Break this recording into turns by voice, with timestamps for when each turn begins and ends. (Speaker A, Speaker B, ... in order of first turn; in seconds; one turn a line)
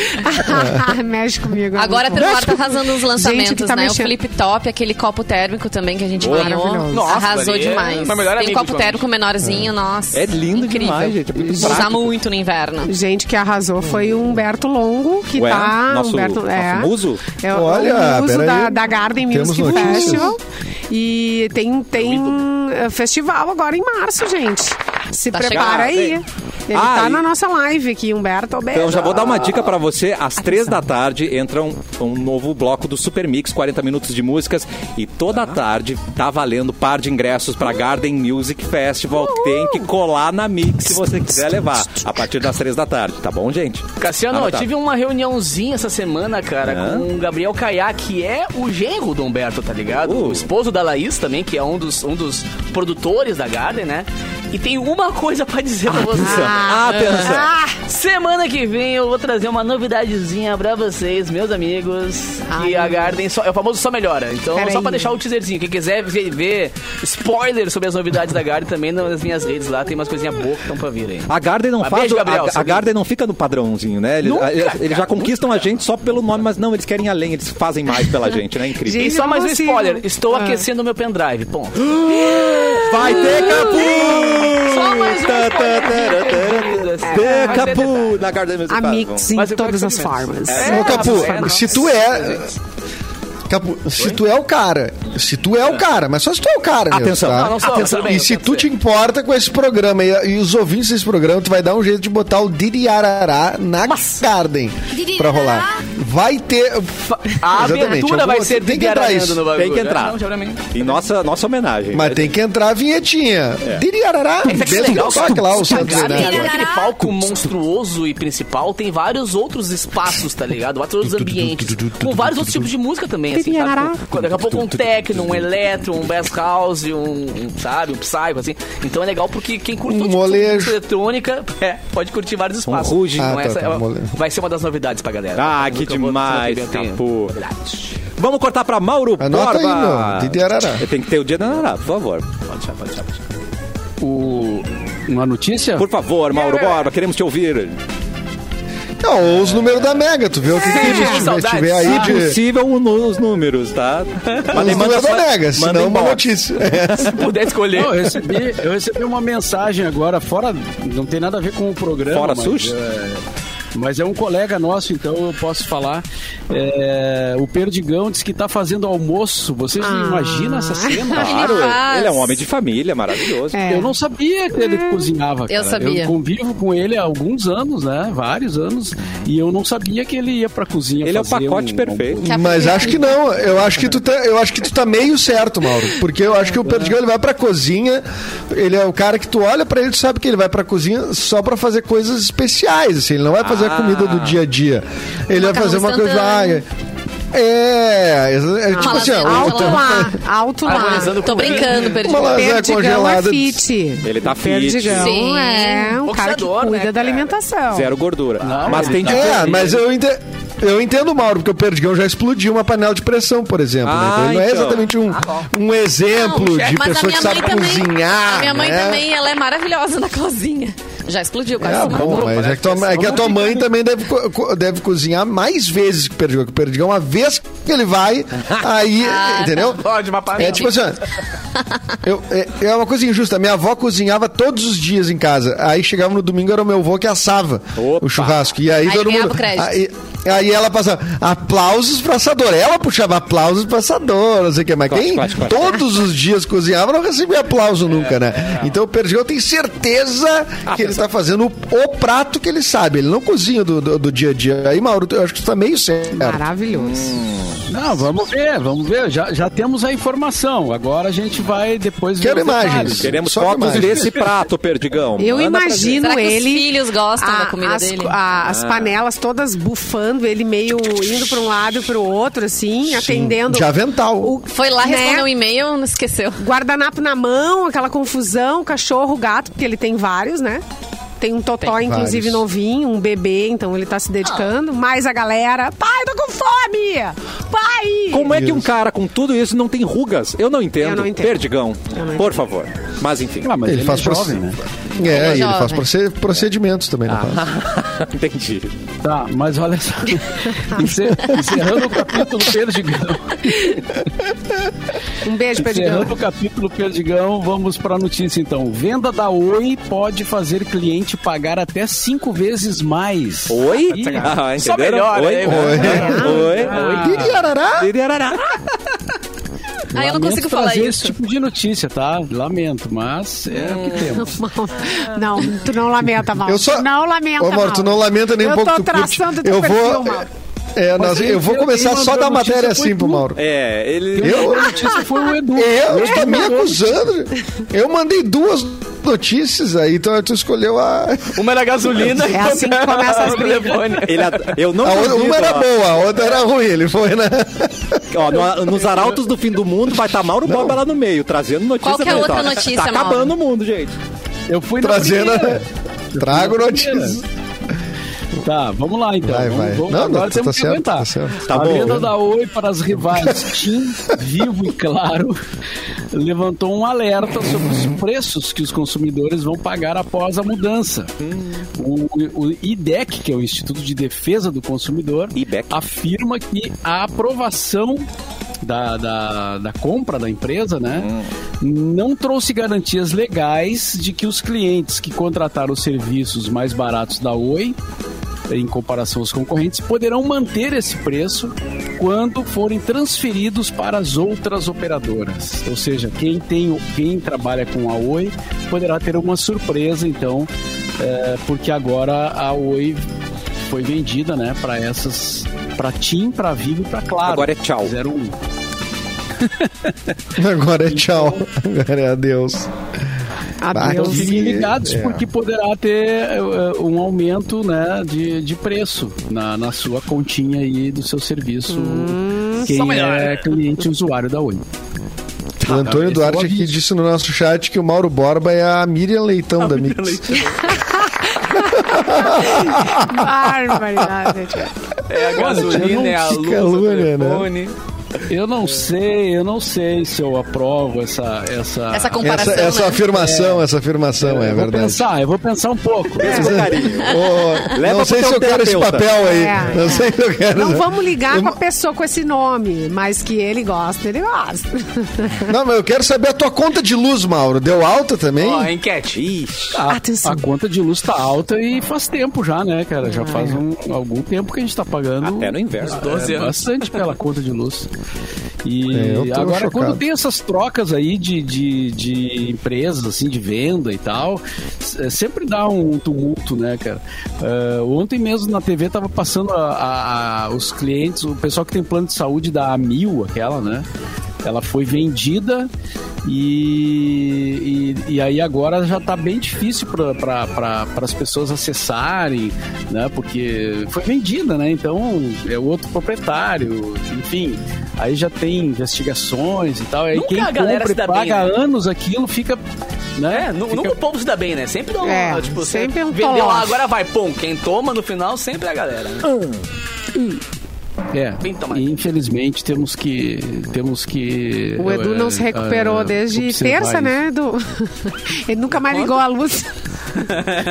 Speaker A: 0.1-4.2
Speaker B: 0.4-1.0
Speaker C: 1.8-12.9
Speaker A: 6.2-7.2
Speaker D: 6.2-6.6
Speaker E: 6.9-9.1
Speaker B: 9.4-9.7
Speaker D: 10.1-12.2
Speaker A: 11.5-11.9
Speaker A: 12.9-29.8
Speaker D: 15.3-17.2
Speaker B: 17.5-20.4
Speaker E: 21.9-22.4
Speaker C: 25.3-25.9
Speaker D: 25.5-26.2
Speaker D: 26.7-27.2
Speaker D: 28.7-44.7
Speaker E: 44.0-57.3
Speaker D: 46.6-47.1
Speaker D: 50.0-50.5
Speaker D: 56.1-57.5
Speaker A: 56.2-57.8
Speaker E: 57.8-71.3
Speaker A: 62.5-63.2
Speaker A: 64.5-65.2
Speaker D: 71.3-79.1
Speaker E: 71.8-72.9
Speaker E: 74.2-75.6
Speaker A: 78.8-80.7
Speaker E: 78.9-88.3
Speaker D: 82.0-89.3
Speaker A: 82.3-85.2
Speaker A: 87.0-87.8
Speaker A: 88.7-91.8
Speaker E: 89.3-92.5
Speaker D: 90.5-91.1
Speaker B: 90.6-92.5
Speaker B: 93.5-109.4
Speaker D: 96.9-97.6
Speaker E: 97.2-98.7
Speaker E: 103.9-104.2
Speaker E: 107.2-111.0
Speaker D: 109.5-110.2
Speaker D: 110.7-112.3
Speaker B: 111.9-116.7
Speaker E: 114.5-138.0
Speaker A: 115.7-116.8
Speaker C: 115.9-116.9
Speaker B: 121.0-122.7
Speaker A: 123.3-124.0
Speaker B: 129.9-130.8
Speaker D: 132.7-133.3
Speaker B: 133.2-134.1
Speaker D: 135.4-137.4
Speaker D: 138.2-142.3
Speaker B: 139.2-140.8
Speaker E: 142.5-143.2
Speaker F: 144.0-145.9
Speaker D: 145.8-147.8
Speaker E: 146.3-146.8
Speaker B: 149.0-152.4
Speaker E: 150.5-152.2
Speaker A: 150.6-151.3
Speaker D: 151.8-156.3
Speaker F: 151.9-152.2
Speaker E: 154.3-154.9
Speaker B: 154.5-157.3
Speaker E: 157.0-158.2
Speaker F: 157.7-163.2
Speaker D: 162.1-162.8
Speaker F: 163.7-171.4
Speaker A: 169.8-171.5
Speaker D: 171.1-173.6
Speaker C: 171.2-172.4
Speaker A: 173.5-174.0
Speaker F: 173.7-182.9
Speaker A: 174.6-175.1
Speaker C: 175.5-176.1
Speaker D: 181.0-182.2
Speaker C: 182.2-183.2
Speaker B: 182.3-196.7
Speaker F: 186.6-186.9
Speaker D: 193.4-194.4
Speaker C: 195.3-196.6
Speaker B: 197.3-200.2
Speaker A: 198.7-208.0
Speaker C: 198.8-200.1
Speaker E: 200.6-202.0
Speaker C: 200.7-202.6
Speaker B: 202.0-203.6
Speaker D: 204.0-205.2
Speaker C: 204.9-206.0
Speaker E: 206.1-207.3
Speaker D: 207.7-209.7
Speaker F: 208.4-209.7
Speaker E: 208.5-209.2
Speaker B: 209.0-219.1
Speaker D: 213.8-214.9
Speaker E: 215.1-215.5
Speaker C: 216.1-222.3
Speaker B: 221.6-231.0
Speaker E: 222.1-223.4
Speaker F: 222.9-223.6
Speaker C: 229.0-229.8
Speaker E: 229.7-230.9
Speaker B: 232.0-256.4
Speaker D: 237.8-238.4
Speaker C: 238.8-239.8
Speaker D: 244.9-245.8
Speaker D: 250.7-251.0
Speaker A: 256.2-257.2
Speaker D: 256.7-257.6
Speaker F: 257.7-264.3
Speaker B: 262.2-264.1
Speaker D: 263.0-266.1
Speaker A: 265.2-275.3
Speaker C: 266.0-268.1
Speaker D: 268.5-268.9
Speaker B: 272.9-274.3
Speaker C: 274.4-276.4
Speaker A: 276.4-280.6
Speaker A: 281.2-288.4
Speaker B: 281.7-282.4
Speaker D: 288.1-293.5
Speaker B: 288.3-288.7
Speaker A: 290.8-292.5
Speaker F: 293.4-294.6
Speaker B: 293.7-294.4
Speaker B: 295.0-297.5
Speaker C: 295.0-295.9
Speaker D: 297.1-298.7
Speaker F: 299.0-304.0
Speaker A: 305.2-306.2
Speaker F: 305.6-314.4
Speaker D: 313.5-318.7
Speaker E: 313.9-317.3
Speaker B: 315.4-316.2
Speaker A: 315.8-317.0
Speaker F: 316.0-317.1
Speaker B: 317.0-317.9
Speaker F: 319.9-324.4
Speaker C: 319.9-321.1
Speaker D: 323.6-324.1
Speaker A: 324.1-330.3
Speaker B: 326.4-333.4
Speaker F: 331.0-333.3
Speaker D: 333.3-334.7
Speaker F: 334.1-336.9
Speaker B: 334.2-334.8
Speaker B: 335.6-341.4
Speaker A: 336.1-336.5
Speaker E: 341.4-344.6
Speaker A: 342.3-344.0
Speaker D: 344.0-345.7
Speaker B: 344.8-348.2
Speaker D: 348.1-354.0
Speaker B: 350.4-350.8
Speaker C: 351.8-353.4
Speaker F: 354.5-357.2
Speaker B: 354.8-355.7
Speaker B: 356.2-357.2
Speaker F: 358.4-365.4
Speaker B: 359.2-362.1
Speaker D: 361.5-362.1
Speaker F: 366.1-371.1
Speaker D: 371.2-371.6
Speaker F: 371.8-378.1
Speaker D: 375.3-375.8
Speaker F: 378.6-387.8
Speaker D: 381.0-381.3
Speaker F: 388.5-403.1
Speaker F: 403.7-408.4
Speaker D: 407.2-407.9
Speaker F: 409.4-410.1
Speaker B: 410.4-412.7
Speaker F: 410.9-411.4
Speaker A: 413.6-414.6
Speaker B: 413.7-415.3
Speaker F: 413.8-424.7
Speaker A: 421.7-422.7
Speaker E: 422.6-423.6
Speaker F: 425.6-426.7
Speaker B: 425.6-430.4
Speaker E: 429.6-430.7
Speaker A: 430.7-431.1
Speaker B: 431.6-434.1
Speaker A: 432.1-434.7
Speaker E: 435.1-437.7
Speaker F: 435.3-436.2
Speaker B: 435.5-437.5
Speaker F: 438.3-442.3
Speaker C: 441.9-443.1
Speaker B: 442.2-445.1
Speaker F: 443.1-443.6
Speaker F: 444.2-446.6
Speaker D: 446.2-449.2
Speaker B: 446.2-451.6
Speaker A: 446.2-446.6
Speaker C: 447.0-447.7
Speaker A: 449.2-455.5
Speaker B: 455.5-458.7
Speaker E: 458.4-459.2
Speaker D: 459.1-459.8
Speaker F: 459.7-467.9
Speaker A: 459.9-460.5
Speaker A: 463.1-463.6
Speaker D: 465.2-466.3
Speaker E: 465.9-466.7
Speaker F: 468.6-483.9
Speaker B: 468.9-470.0
Speaker F: 484.4-485.7
Speaker F: 486.2-502.6
Speaker E: 500.1-501.5
Speaker F: 503.2-504.0
Speaker E: 503.3-509.3
Speaker A: 505.0-506.8
Speaker F: 511.1-517.2
Speaker E: 511.4-512.0
Speaker A: 514.8-519.7